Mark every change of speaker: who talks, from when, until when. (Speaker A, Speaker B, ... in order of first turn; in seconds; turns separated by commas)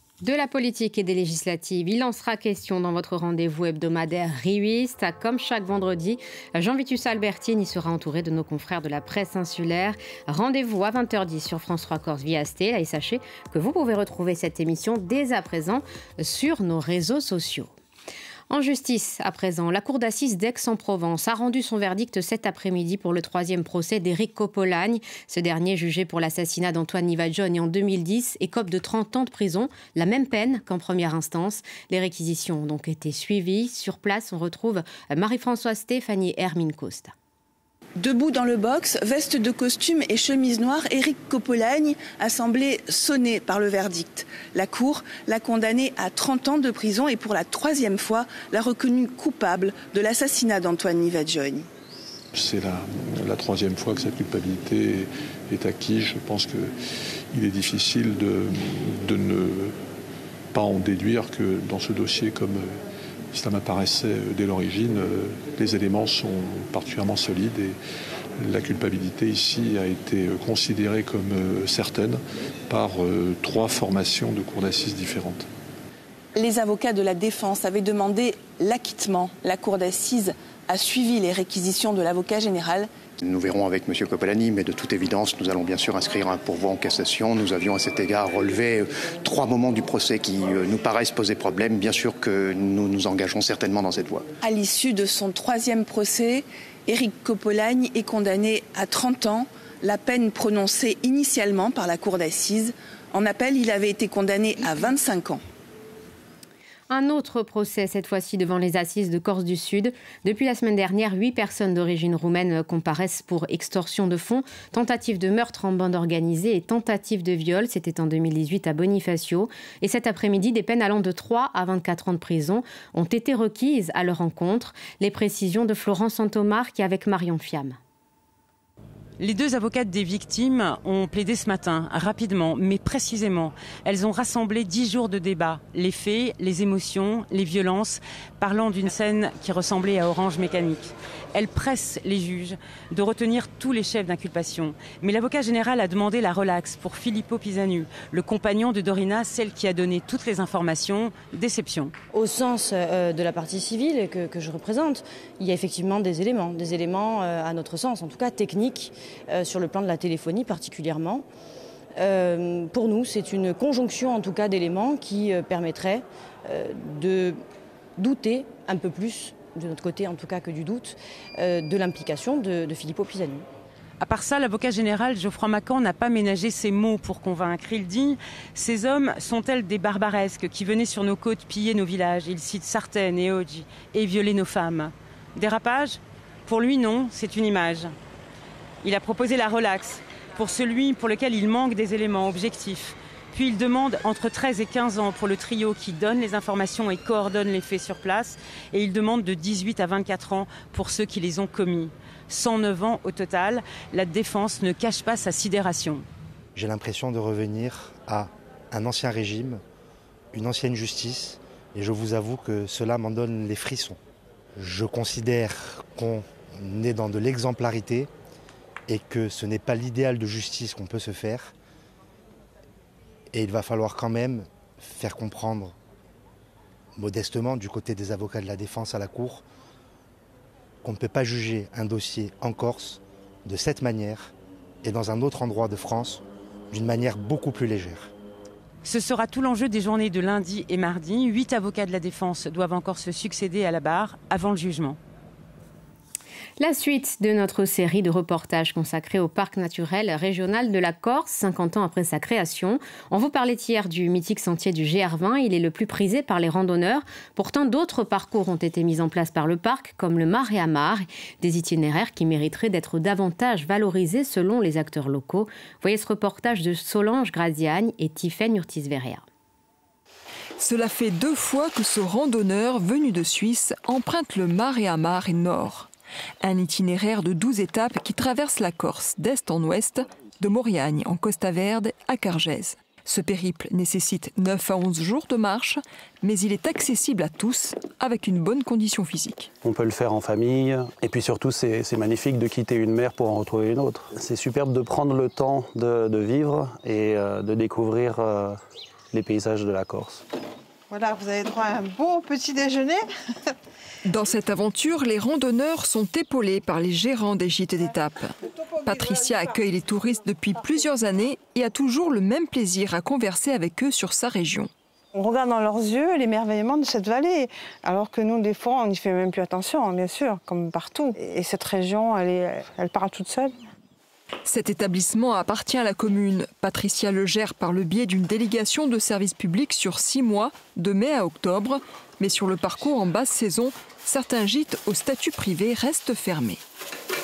Speaker A: 0.2-17.7, Speaker A: 18.5-37.1, Speaker B: 38.0-51.7, Speaker C: 52.3-56.7, Speaker C: 57.3-59.8, Speaker C: 60.5-62.8, Speaker C: 63.3-67.8, Speaker C: 68.4-75.5, Speaker B: 76.3-83.0, Speaker D: 83.2-94.2, Speaker B: 94.4-105.4, Speaker A: 106.9-127.8, Speaker E: 129.2-151.9, Speaker F: 152.1-161.2, Speaker F: 162.0-167.4, Speaker F: 168.0-173.5, Speaker E: 174.0-187.9, Speaker E: 188.8-206.0, Speaker G: 206.5-209.6, Speaker G: 210.3-214.0, Speaker G: 214.6-218.1, Speaker G: 218.9-221.5, Speaker G: 223.3-225.7, Speaker G: 227.0-229.4, Speaker G: 230.8-234.3, Speaker G: 234.8-238.1, Speaker E: 238.8-245.0, Speaker A: 246.6-269.2, Speaker H: 270.6-275.9, Speaker H: 276.4-289.5, Speaker I: 289.6-298.6, Speaker I: 299.1-300.2, Speaker J: 300.9-303.0, Speaker H: 304.1-314.7, Speaker J: 315.1-323.5, Speaker H: 324.4-336.6